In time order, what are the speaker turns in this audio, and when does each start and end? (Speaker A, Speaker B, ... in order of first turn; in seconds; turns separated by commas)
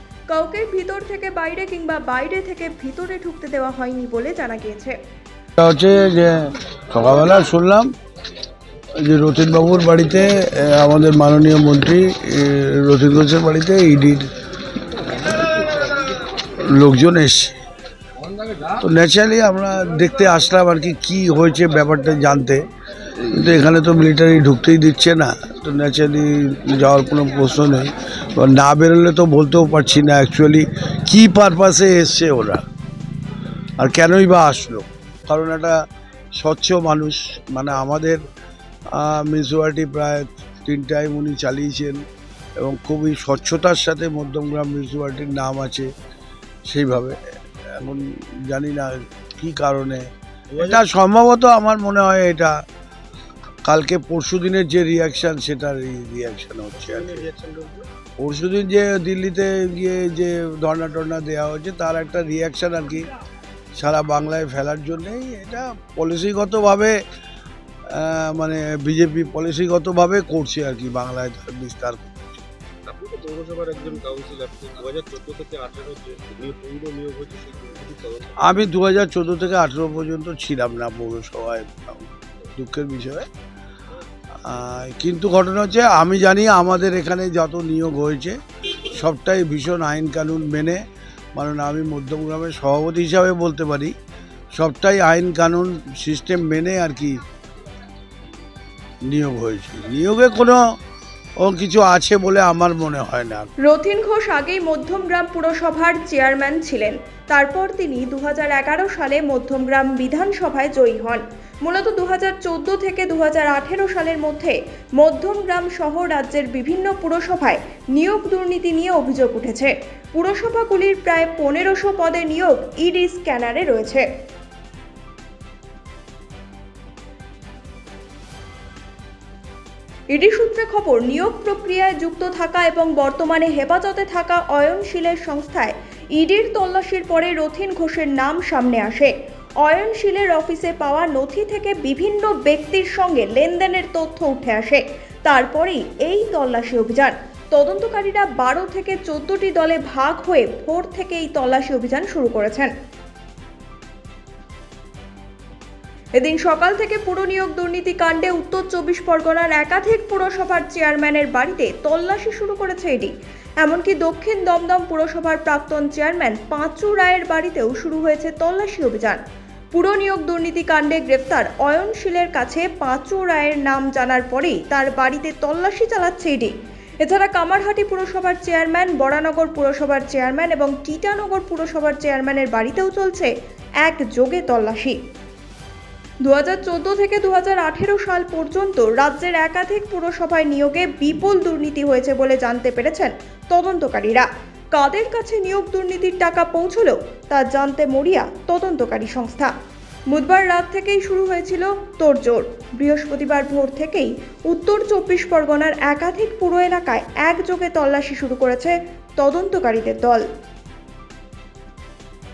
Speaker A: 0.3-5.0, Speaker B: 5.6-7.9, Speaker B: 9.0-14.3, Speaker B: 16.5-17.6, Speaker B: 18.8-22.6, Speaker B: 23.2-32.6, Speaker B: 33.8-35.8, Speaker B: 36.4-38.2, Speaker B: 38.9-42.0, Speaker B: 42.6-45.9, Speaker B: 46.7-47.2, Speaker B: 47.7-50.1, Speaker C: 50.5-50.8, Speaker B: 50.6-52.6, Speaker B: 53.6-57.3, Speaker C: 56.8-57.9, Speaker B: 58.2-63.1, Speaker B: 63.8-67.0, Speaker B: 67.9-72.1, Speaker C: 72.9-78.5, Speaker B: 78.4-83.3, Speaker B: 84.4-90.8, Speaker B: 91.3-93.9, Speaker B: 94.5-97.2, Speaker B: 99.1-100.6, Speaker B: 101.4-103.5, Speaker A: 103.6-124.0, Speaker A: 130.1-139.1, Speaker A: 139.6-152.7, Speaker A: 156.2-169.2, Speaker A: 169.7-185.0, Speaker A: 186.2-199.5, Speaker A: 200.1-210.2